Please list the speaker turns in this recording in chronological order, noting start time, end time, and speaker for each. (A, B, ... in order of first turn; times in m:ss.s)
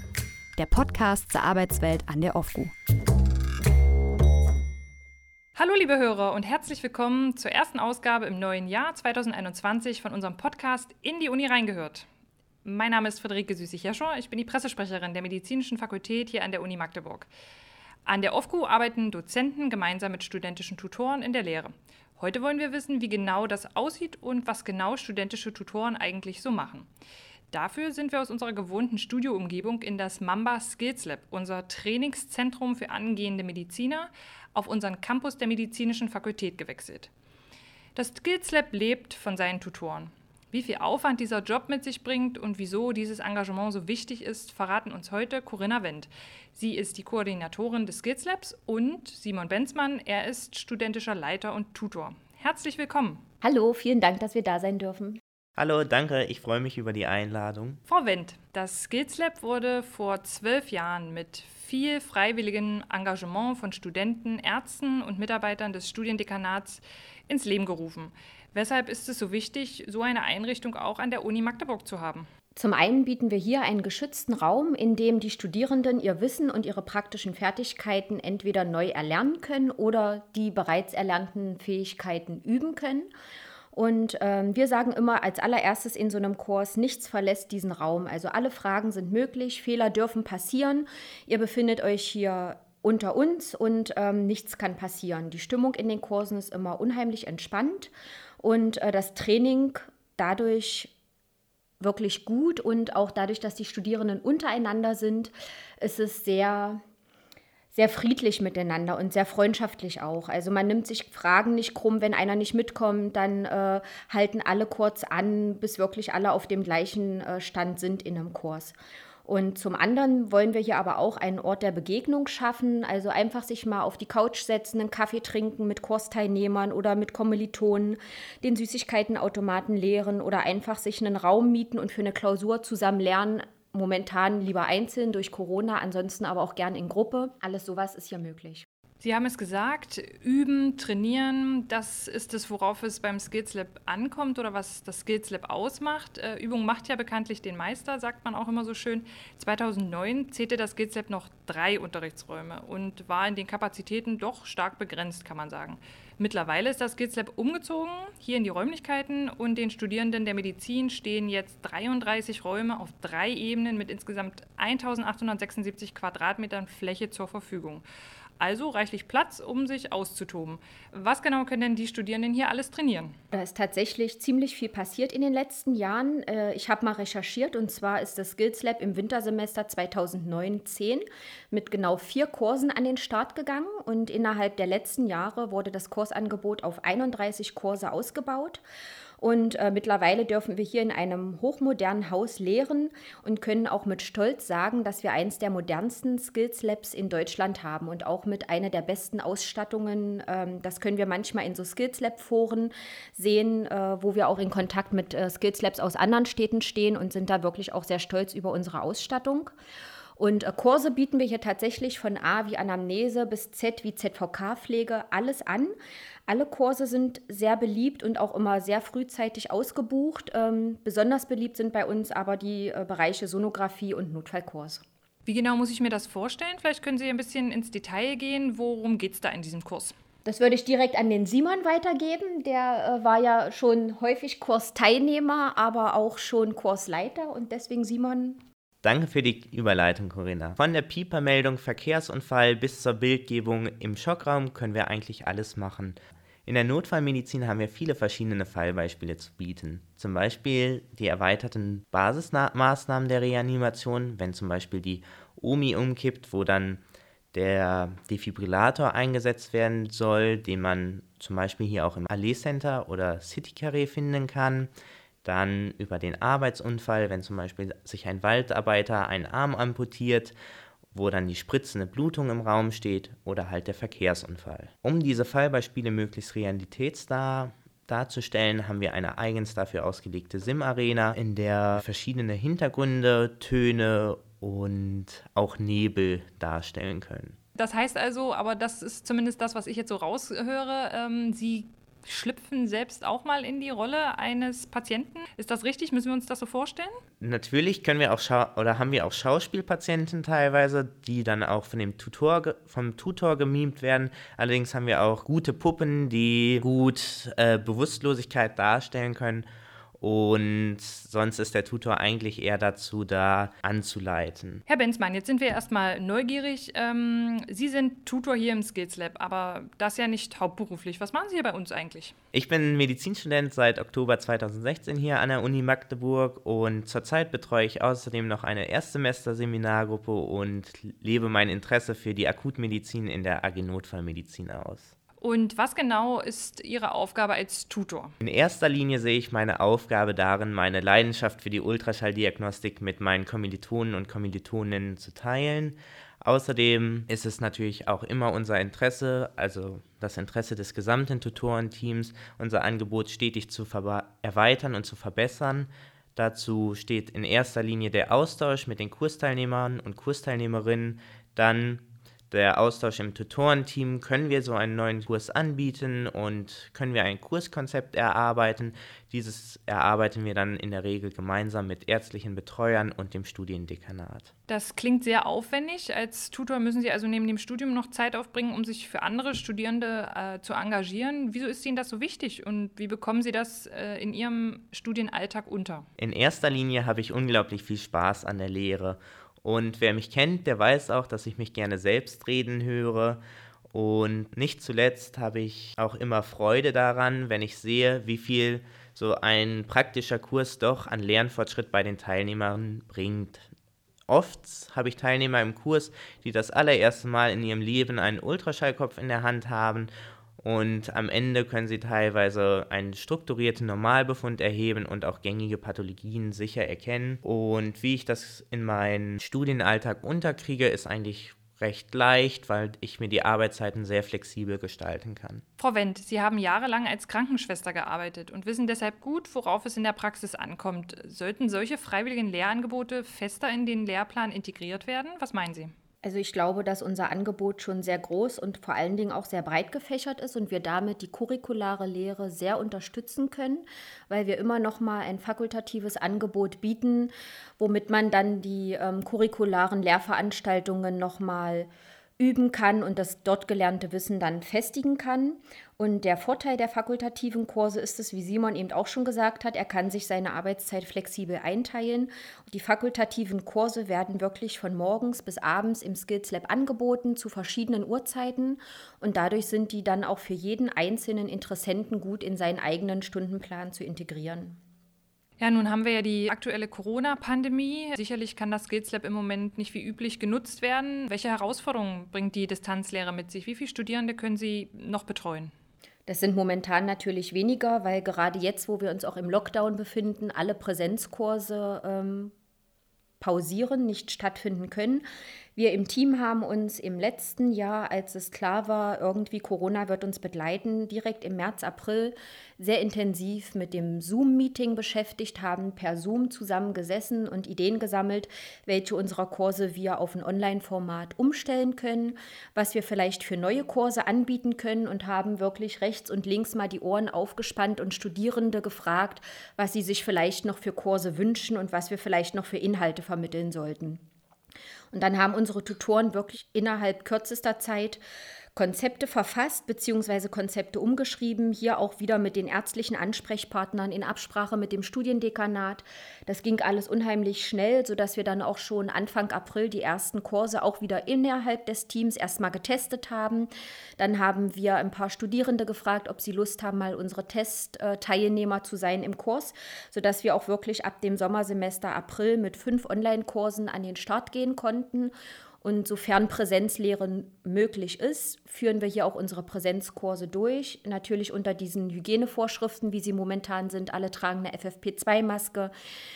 0:00.6-0:02.7 A
0:05.6-0:12.0 B
0:12.6-0:17.3 B
0:18.0-0:26.9 B
0:27.5-0:37.1 B
0:38.0-0:53.2 B
0:53.4-0:55.2 C
0:55.6-0:57.8 D
0:57.9-1:12.3 B
1:12.6-1:23.1 C
1:23.7-1:40.9 C
1:41.8-1:46.8 C
1:47.7-2:18.7 C
2:19.0-2:47.8 B
2:48.4-2:53.2 B
2:53.3-3:08.6 C
3:09.2-3:29.5 C
3:30.2-3:35.7 C
3:36.3-3:44.8 C
3:45.2-3:49.9 B
3:50.2-3:58.4 C
3:58.8-4:16.8 D
4:17.3-4:24.7 D
4:25.2-4:30.4 D
4:30.9-4:47.4 D
4:47.6-4:56.9 B
4:57.2-5:09.5 D
5:10.0-5:14.6 D
5:14.7-5:22.1 B
5:22.3-5:34.9 D
5:35.2-5:38.1 B
5:38.2-6:14.3 D
6:14.5-6:25.9 B
6:26.0-6:33.2 D
6:33.7-6:43.5 D
6:44.1-7:05.4 D
7:05.6-7:15.7 B
7:16.0-7:54.6 C
7:55.4-8:05.5 B
8:06.1-8:12.3 C
8:13.2-8:15.0 C
8:15.6-8:44.0 C
8:44.9-8:48.0 C
8:48.6-9:25.7 C